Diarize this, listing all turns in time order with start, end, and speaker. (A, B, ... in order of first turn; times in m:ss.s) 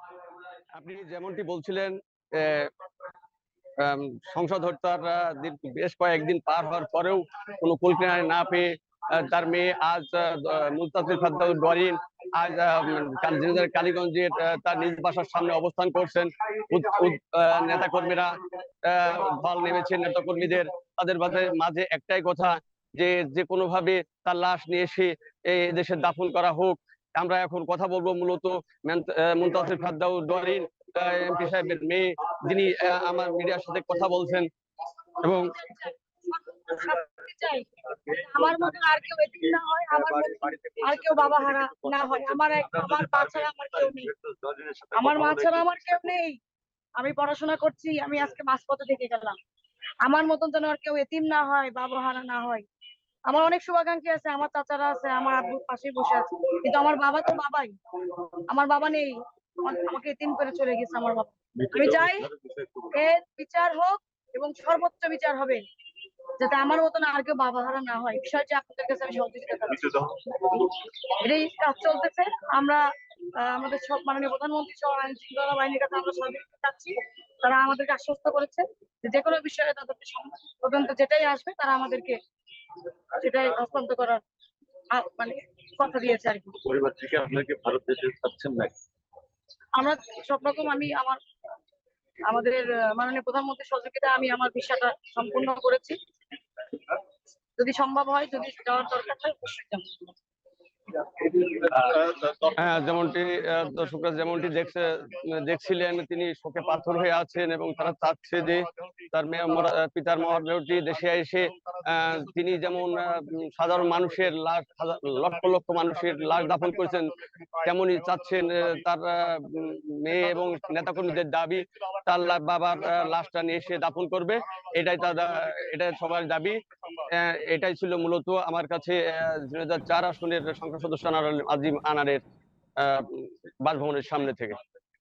0:00.7-0:02.7 A
0:03.8-0:18.3 A
0:18.8-0:34.5 A
0:35.2-0:35.6 A
0:35.6-0:44.1 B
0:40.3-0:41.5 A
0:44.2-0:44.9 A
0:44.5-0:45.7 C
0:44.9-0:46.4 B
0:47.0-0:49.4 B
0:50.0-0:52.6 B
0:53.3-0:57.8 B
0:58.5-1:02.3 B
1:02.4-1:02.8 C
1:02.9-1:05.6 B
1:06.4-1:12.8 B
1:13.4-1:22.2 B
1:23.1-1:24.2 B
1:24.9-1:26.5 B
1:26.6-1:28.7 C
1:29.8-1:31.2 B
1:32.3-1:36.0 B
1:37.6-1:40.1 B
1:41.5-2:06.6 A
2:07.1-2:12.2 A
2:12.8-2:14.6 A